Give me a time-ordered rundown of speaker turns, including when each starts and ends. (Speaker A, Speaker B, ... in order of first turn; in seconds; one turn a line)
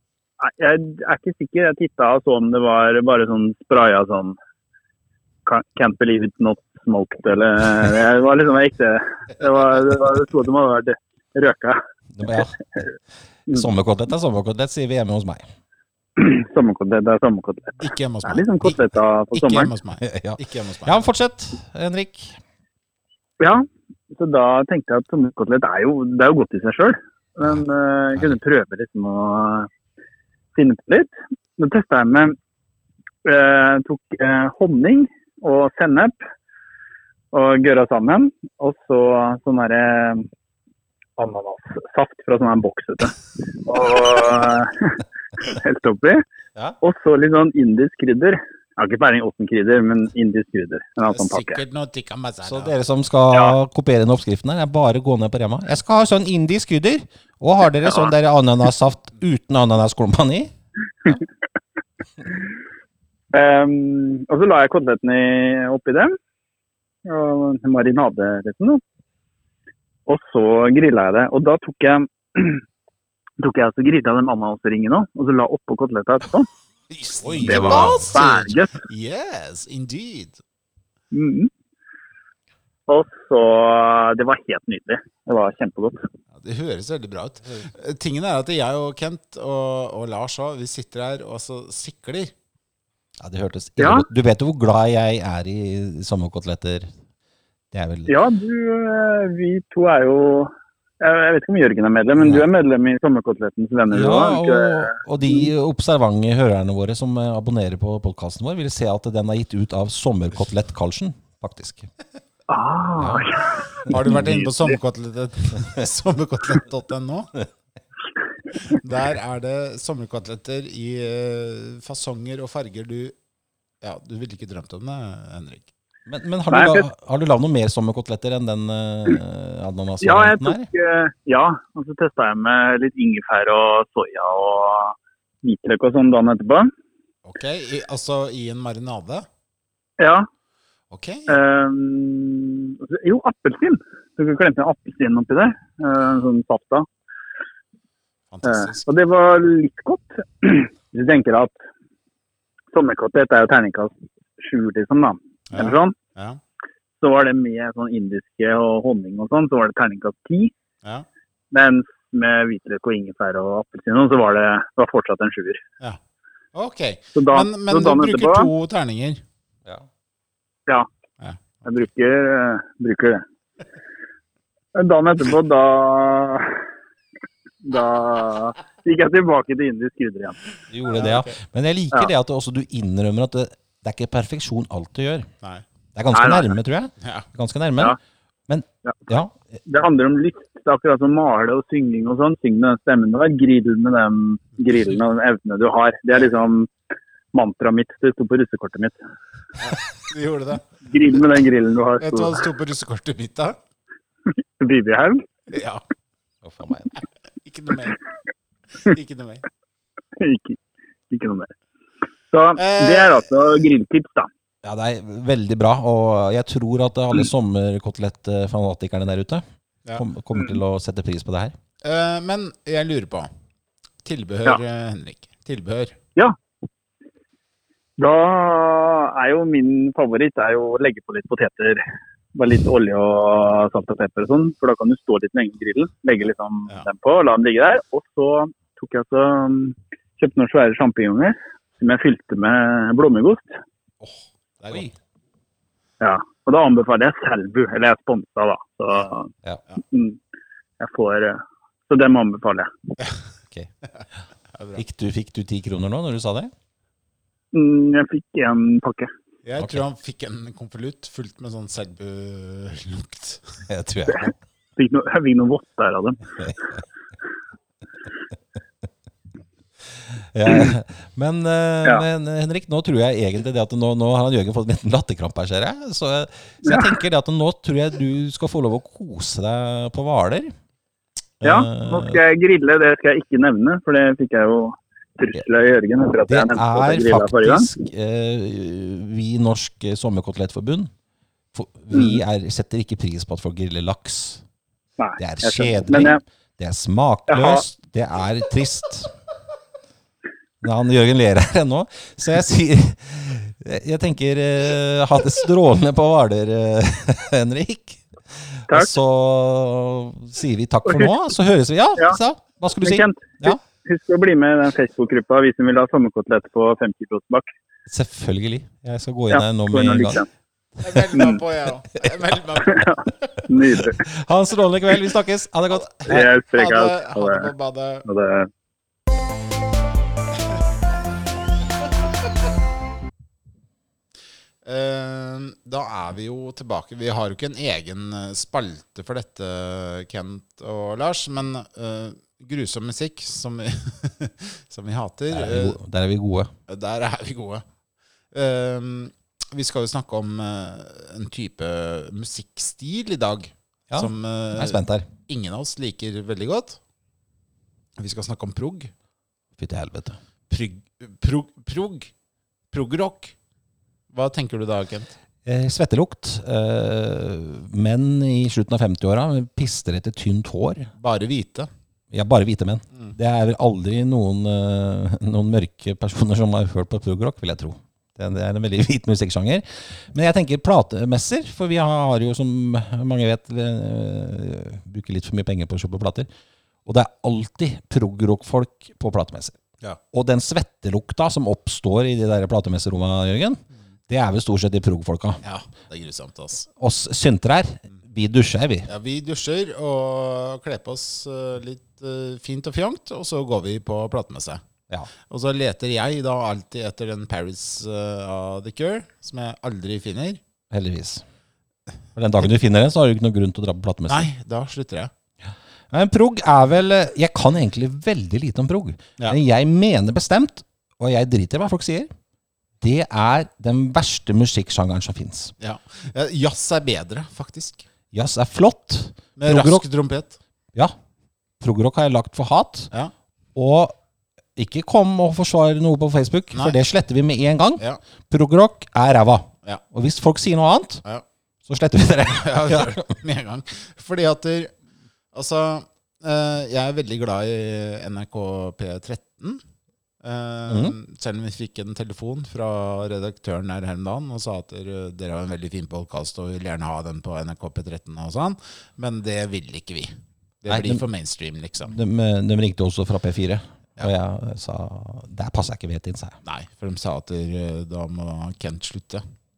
Speaker A: 0.4-4.4
Speaker A: 5.5-11.8
Speaker B: 12.1-12.6
Speaker B: 13.5-15.4
Speaker A: 16.2-19.7
Speaker C: 17.8-18.8
Speaker C: 19.3-21.1
Speaker B: 20.0-22.4
Speaker A: 23.4-29.7
Speaker A: 30.5-32.3
Speaker A: 33.2-36.1
Speaker A: 37.3-40.3
Speaker A: 41.2-46.2
Speaker A: 46.8-51.6
Speaker C: 51.1-52.7
Speaker B: 52.4-60.5
Speaker A: 63.3-66.2
Speaker A: 67.0-68.8
Speaker A: 70.1-72.6
Speaker A: 73.4-76.5
Speaker B: 76.9-78.0
Speaker C: 77.2-80.4
Speaker A: 77.4-78.8
Speaker A: 81.1-81.5
Speaker A: 82.9-86.0
Speaker C: 86.3-92.3
Speaker B: 93.2-96.9
Speaker A: 93.8-94.0
Speaker B: 97.7-98.1
Speaker A: 98.1-105.5
Speaker B: 102.2-102.5
Speaker B: 103.9-111.9
Speaker A: 112.5-114.7
Speaker B: 113.0-113.3
Speaker C: 113.9-117.3
Speaker C: 118.5-123.1
Speaker C: 123.8-125.7
Speaker B: 126.1-130.7
Speaker A: 126.5-126.8
Speaker A: 130.0-136.7
Speaker C: 137.2-139.3
Speaker A: 140.0-140.3
Speaker C: 140.9-141.4
Speaker A: 141.3-146.8
Speaker C: 148.3-148.8
Speaker A: 148.4-151.6
Speaker A: 152.7-155.9
Speaker C: 155.5-156.4
Speaker A: 157.0-160.5
Speaker A: 161.5-165.6
Speaker C: 166.5-169.2
Speaker A: 167.1-168.5
Speaker A: 171.6-173.2
Speaker A: 174.7-176.6
Speaker A: 177.6-180.4
Speaker B: 180.7-185.3
Speaker C: 180.9-181.4
Speaker B: 185.9-188.0
Speaker A: 186.1-186.5
Speaker C: 187.0-187.2
Speaker B: 188.5-189.6
Speaker A: 188.8-196.7
Speaker A: 197.3-199.0
Speaker C: 199.6-200.6
Speaker A: 200.8-202.4
Speaker C: 202.0-203.6
Speaker A: 204.6-205.2
Speaker C: 205.5-205.8
Speaker B: 206.4-206.9
Speaker C: 207.4-208.0
Speaker C: 208.8-209.4
Speaker A: 210.2-210.6
Speaker A: 211.1-211.5
Speaker A: 212.3-214.3
Speaker C: 212.6-213.3
Speaker B: 214.6-219.4
Speaker B: 220.0-221.5
Speaker C: 221.8-223.3
Speaker C: 224.0-225.9
Speaker A: 228.0-231.8
Speaker A: 232.3-243.6
Speaker C: 244.0-244.9
Speaker B: 244.7-244.9
Speaker A: 246.0-249.3
Speaker A: 249.9-250.2
Speaker A: 250.8-252.7
Speaker C: 253.9-254.8
Speaker B: 254.8-256.5
Speaker A: 257.5-259.1
Speaker C: 259.4-263.4
Speaker B: 263.7-264.3
Speaker A: 264.8-266.2
Speaker B: 269.9-280.5
Speaker B: 281.4-282.2
Speaker A: 281.4-287.7
Speaker B: 286.3-290.9
Speaker B: 291.5-294.4
Speaker A: 291.9-292.2
Speaker A: 295.0-296.2
Speaker B: 295.2-299.1
Speaker A: 297.3-297.6
Speaker B: 300.6-313.6
Speaker A: 310.9-311.1
Speaker A: 312.8-317.5
Speaker B: 317.9-320.2
Speaker A: 319.3-320.3
Speaker C: 320.8-322.9
Speaker A: 321.1-321.4
Speaker A: 322.6-324.0
Speaker B: 323.8-326.3
Speaker C: 325.7-328.0
Speaker A: 326.1-327.5
Speaker A: 328.1-328.5
Speaker C: 334.6-345.8
Speaker B: 345.3-346.5
Speaker C: 346.7-347.6
Speaker C: 348.3-356.8
Speaker B: 353.9-355.1
Speaker C: 358.0-358.9
Speaker B: 359.6-360.2
Speaker C: 360.5-362.1
Speaker C: 362.7-363.3
Speaker C: 364.1-365.1
Speaker B: 365.4-370.9
Speaker C: 371.0-371.7
Speaker B: 372.1-386.3
Speaker B: 386.9-389.6
Speaker B: 390.1-395.4
Speaker C: 395.4-396.7
Speaker B: 396.8-398.9
Speaker C: 398.9-404.6
Speaker C: 405.3-410.4
Speaker B: 410.7-411.2
Speaker B: 412.1-414.3
Speaker C: 414.1-415.1
Speaker B: 415.9-422.1
Speaker B: 422.8-425.5
Speaker C: 425.6-427.8
Speaker B: 428.1-429.8
Speaker C: 429.4-430.4
Speaker B: 431.6-432.9
Speaker B: 433.5-433.9
Speaker B: 434.6-441.0
Speaker C: 436.5-436.8
Speaker B: 441.6-443.0
Speaker C: 442.3-444.7
Speaker C: 445.3-449.6
Speaker C: 450.2-461.9
Speaker B: 450.7-450.9
Speaker B: 460.7-461.0
Speaker B: 461.9-466.4
Speaker C: 466.4-469.2